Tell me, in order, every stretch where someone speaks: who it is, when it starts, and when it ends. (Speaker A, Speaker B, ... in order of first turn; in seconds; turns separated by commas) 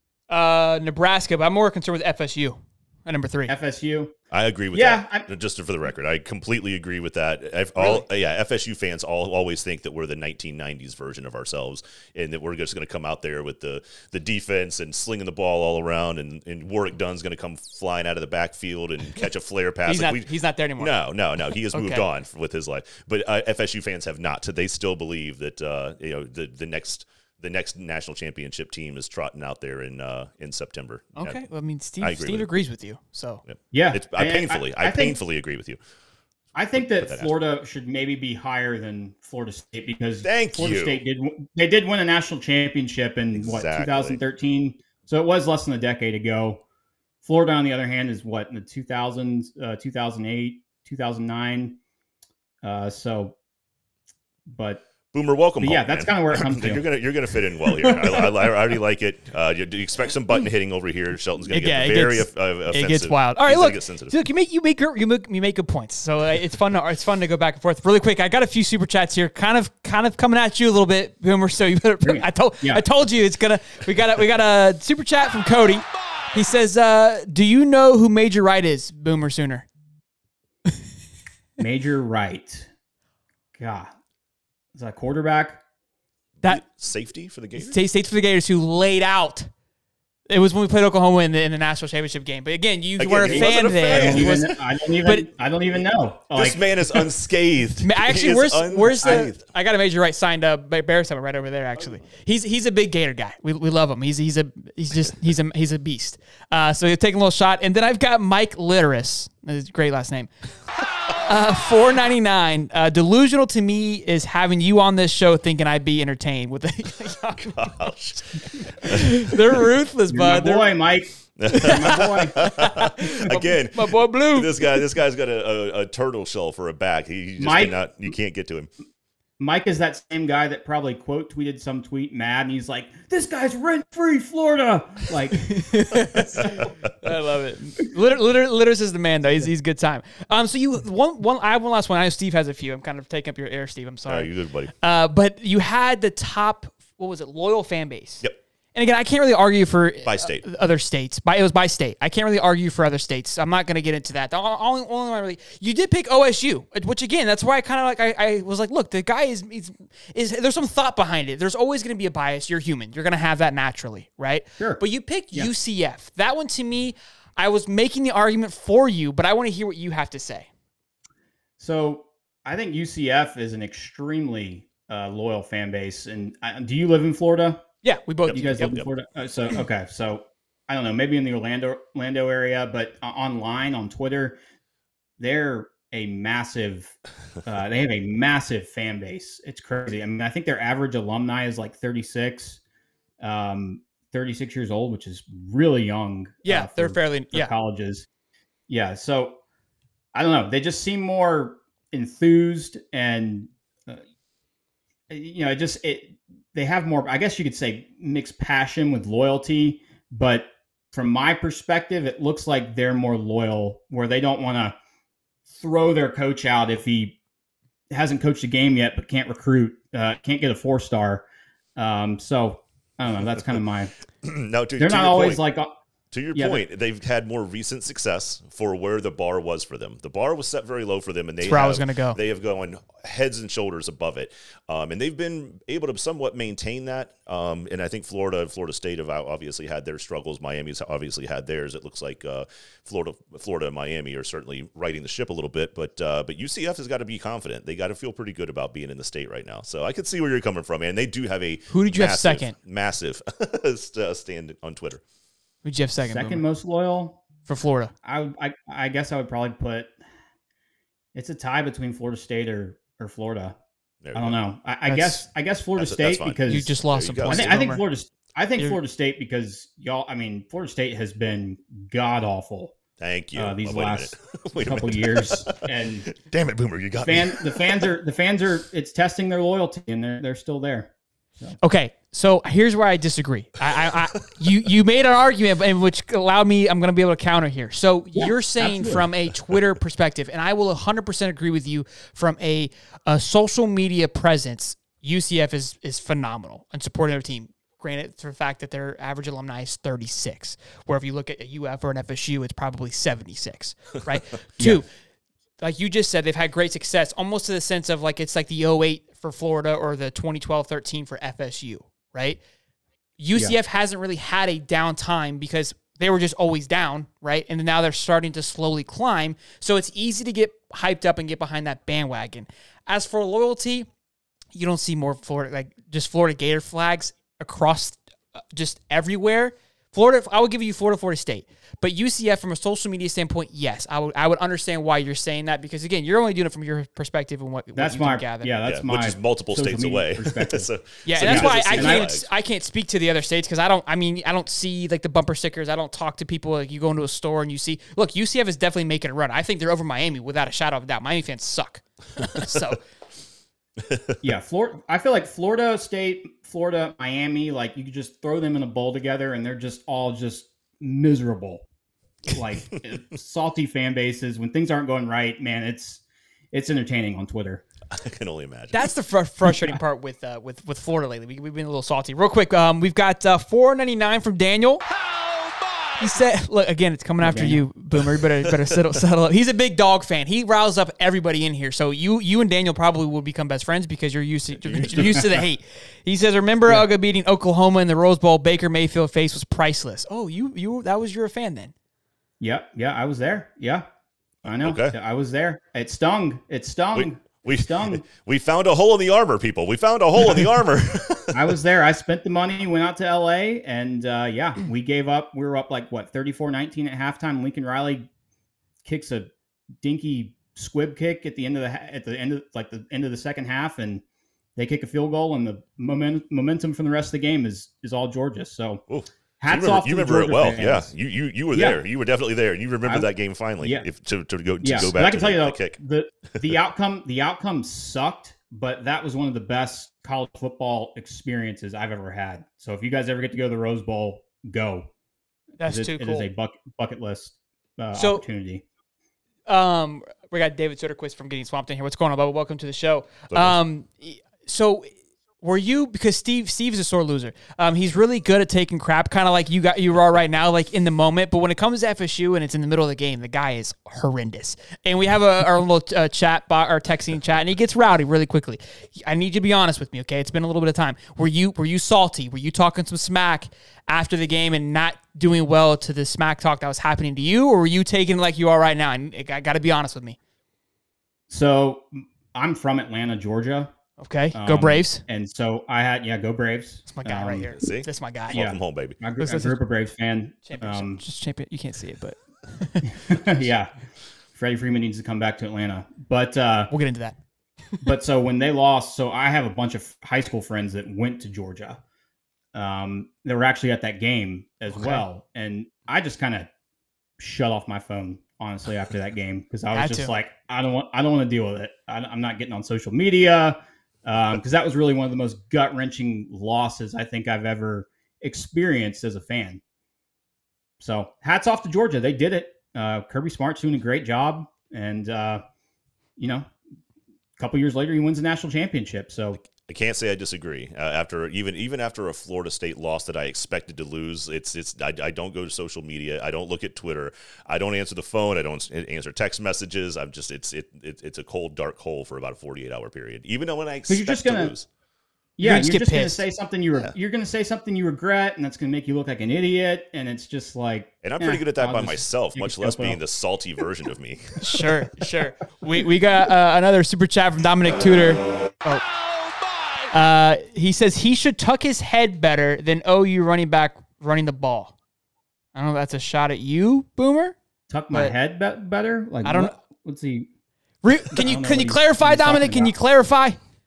Speaker A: 0.3-3.5, Speaker B: 3.5-4.2, Speaker C: 4.3-31.4, Speaker B: 4.7-5.3, Speaker A: 7.8-8.1, Speaker A: 19.9-20.9, Speaker A: 21.7-22.1, Speaker A: 31.2-33.4, Speaker C: 32.0-32.5, Speaker C: 33.5-35.8, Speaker B: 33.7-35.2, Speaker B: 36.5-46.6, Speaker C: 36.8-37.3, Speaker C: 40.2-41.0, Speaker C: 43.4-44.2, Speaker B: 47.2-51.8, Speaker B: 52.6-53.4, Speaker B: 54.5-54.9, Speaker C: 55.1-64.2, Speaker B: 55.6-56.9, Speaker B: 57.7-58.3, Speaker A: 61.5-79.7, Speaker B: 72.0-72.8, Speaker B: 81.6-82.7, Speaker B: 83.6-83.9, Speaker B: 84.7-85.6, Speaker C: 86.4-87.8, Speaker A: 87.6-89.5, Speaker A: 90.3-95.3, Speaker C: 93.0-94.4, Speaker B: 93.3-96.6, Speaker C: 96.3-99.4, Speaker A: 97.8-110.3, Speaker B: 99.0-99.3, Speaker A: 111.3-120.7, Speaker C: 117.4-119.4, Speaker B: 120.1-122.3, Speaker C: 121.4-128.7, Speaker A: 121.5-124.8, Speaker B: 127.4-127.8, Speaker B: 129.4-136.7, Speaker A: 135.4-144.3, Speaker C: 144.1-144.7, Speaker A: 144.8-170.5, Speaker C: 150.1-150.5, Speaker B: 164.6-165.5, Speaker B: 171.6-177.7, Speaker A: 177.8-178.8, Speaker C: 178.3-178.9, Speaker B: 178.3-184.4, Speaker B: 185.2-192.6, Speaker B: 193.2-198.1, Speaker A: 196.4-197.5, Speaker B: 198.7-199.4, Speaker B: 200.1-204.0, Speaker B: 205.1-214.8, Speaker B: 215.5-217.2, Speaker B: 217.9-221.2, Speaker B: 221.8-223.9, Speaker C: 224.2-225.4, Speaker B: 224.8-225.7, Speaker C: 226.1-255.0, Speaker B: 226.3-226.6, Speaker A: 231.4-232.2, Speaker A: 251.7-252.5, Speaker A: 255.6-256.4, Speaker B: 256.0-257.2, Speaker A: 257.5-257.9, Speaker B: 258.0-259.9, Speaker B: 261.1-263.6, Speaker C: 264.0-264.4, Speaker B: 264.1-266.7, Speaker A: 264.9-265.2, Speaker C: 265.8-267.6, Speaker A: 266.5-267.8, Speaker B: 267.3-272.8, Speaker C: 273.0-277.8, Speaker B: 273.4-276.1, Speaker B: 277.0-281.6, Speaker A: 281.6-304.9, Speaker B: 288.1-289.1, Speaker A: 305.6-312.4, Speaker A: 313.2-323.9, Speaker A: 324.5-328.0, Speaker A: 328.5-338.5, Speaker B: 337.8-342.1, Speaker C: 338.6-342.3, Speaker A: 341.1-352.8, Speaker C: 353.9-354.1, Speaker B: 354.2-361.6, Speaker B: 362.3-367.6, Speaker C: 367.9-368.9, Speaker A: 368.7-374.8, Speaker A: 376.0-391.7, Speaker B: 377.2-377.6, Speaker C: 384.6-385.4, Speaker B: 384.9-385.4, Speaker B: 392.4-393.9, Speaker B: 394.4-398.0, Speaker C: 394.5-394.9, Speaker C: 396.9-401.4, Speaker B: 401.3-408.1, Speaker B: 408.8-409.3, Speaker B: 409.8-414.0, Speaker B: 414.6-418.8, Speaker C: 418.9-425.8, Speaker B: 419.4-420.9, Speaker B: 421.5-421.8, Speaker B: 423.6-423.9, Speaker B: 424.6-434.9, Speaker A: 435.6-436.3, Speaker B: 435.6-438.6, Speaker A: 437.9-438.2, Speaker A: 439.5-470.2, Speaker C: 443.3-443.6, Speaker B: 471.3-473.7, Speaker A: 474.0-475.1, Speaker B: 474.3-477.5, Speaker A: 476.9-478.4, Speaker C: 477.4-479.0, Speaker B: 478.3-481.0, Speaker A: 479.2-479.6, Speaker A: 480.4-482.9, Speaker B: 482.9-483.7, Speaker B: 484.4-486.7, Speaker A: 486.7-487.2, Speaker B: 487.8-491.8, Speaker B: 492.5-496.5, Speaker A: 494.7-495.0, Speaker B: 497.2-509.6, Speaker A: 499.7-500.1, Speaker B: 510.8-515.4, Speaker B: 516.2-516.5, Speaker B: 517.4-519.4, Speaker C: 519.4-534.7, Speaker B: 533.9-534.5, Speaker B: 535.4-543.0, Speaker A: 535.4-536.2, Speaker C: 541.0-544.6, Speaker A: 544.4-548.8, Speaker A: 549.9-554.7, Speaker A: 555.5-557.4, Speaker B: 557.7-560.3, Speaker A: 559.2-559.6, Speaker A: 560.8-563.4, Speaker B: 561.1-562.7